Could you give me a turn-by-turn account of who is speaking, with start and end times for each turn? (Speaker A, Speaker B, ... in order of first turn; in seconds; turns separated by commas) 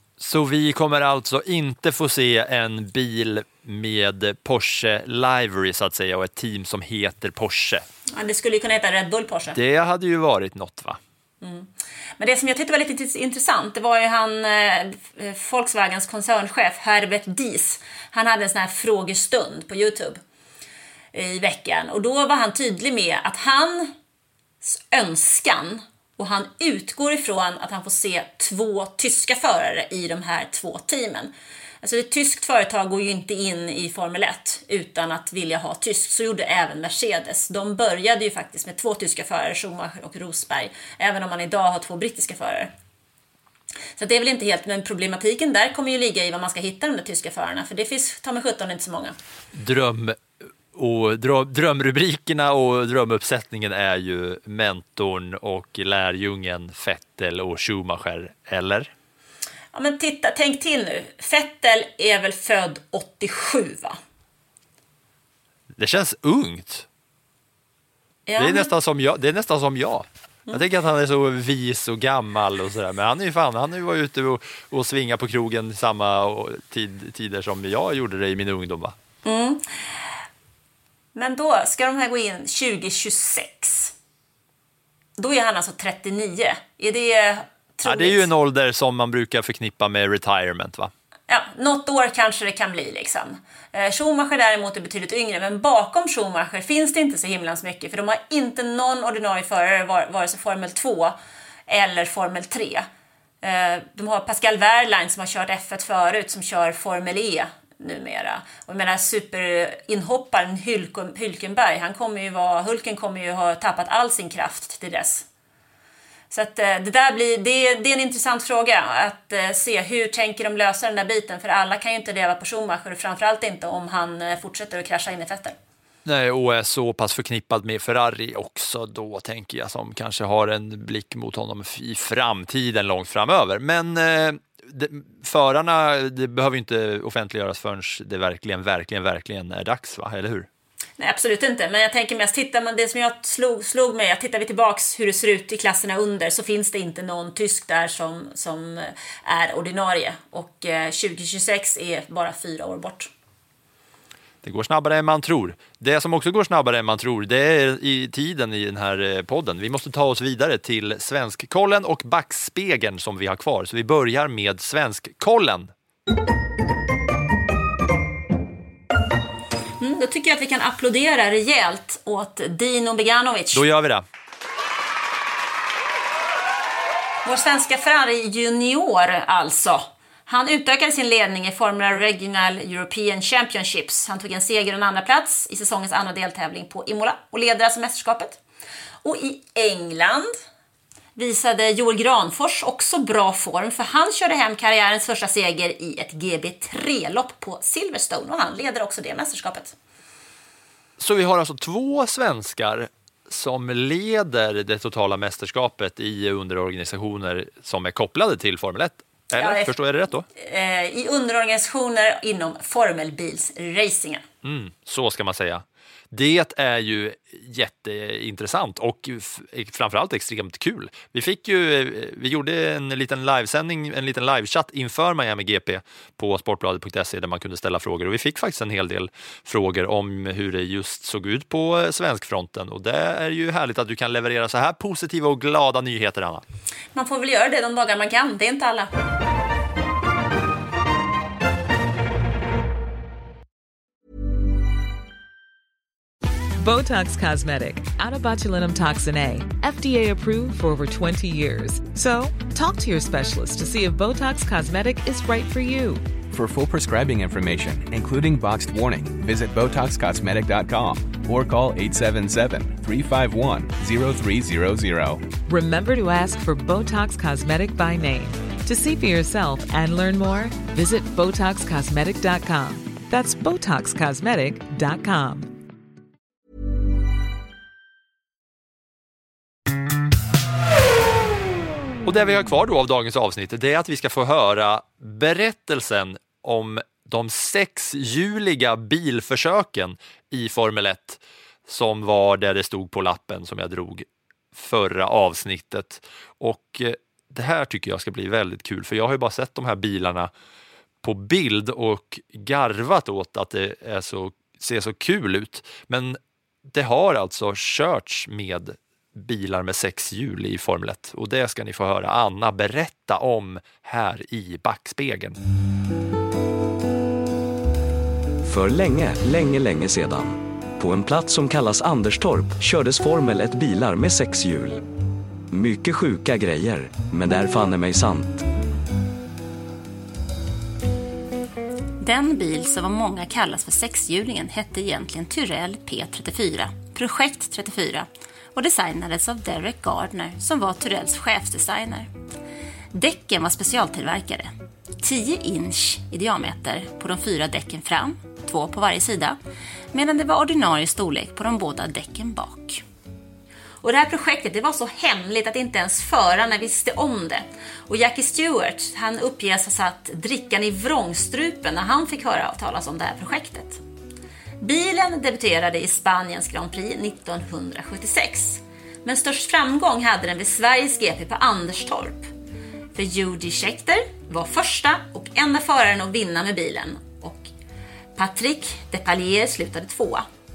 Speaker A: 0.2-7.8, Speaker B: 8.1-9.6, Speaker A: 9.5-11.0, Speaker B: 11.4-20.2, Speaker B: 21.1-23.9, Speaker B: 24.6-42.7, Speaker B: 44.0-49.1, Speaker A: 49.5-50.2, Speaker A: 50.7-58.9, Speaker B: 59.7-64.0, Speaker A: 65.8-66.9, Speaker B: 68.3-68.7, Speaker A: 68.4-78.9, Speaker B: 79.2-79.6, Speaker B: 81.1-83.9, Speaker B: 85.2-88.3, Speaker A: 87.8-90.9, Speaker B: 91.3-101.1, Speaker B: 101.7-102.9, Speaker B: 103.4-115.2, Speaker B: 116.3-125.5, Speaker A: 126.0-140.5, Speaker B: 141.0-153.1, Speaker A: 154.4-165.7, Speaker B: 169.8-173.6, Speaker A: 173.5-174.0, Speaker B: 177.2-188.4, Speaker B: 189.0-190.3, Speaker B: 191.2-199.7, Speaker A: 201.0-210.2, Speaker B: 209.3-209.8, Speaker B: 210.3-214.2, Speaker A: 214.4-236.4, Speaker B: 236.9-238.9, Speaker C: 246.6-256.1, Speaker D: 256.3-265.3, Speaker C: 265.4-275.5, Speaker A: 282.0-300.3, Speaker A: 301.0-315.4, Speaker E: 318.4-324.8, Speaker E: 325.5-328.4, Speaker B: 332.0-338.0, Speaker B: 338.6-342.1, Speaker B: 342.9-344.5, Speaker B: 345.0-349.4, Speaker B: 349.9-352.8, Speaker B: 353.8-363.8, Speaker B: 364.6-372.3, Speaker B: 372.9-377.5, Speaker B: 378.1-380.2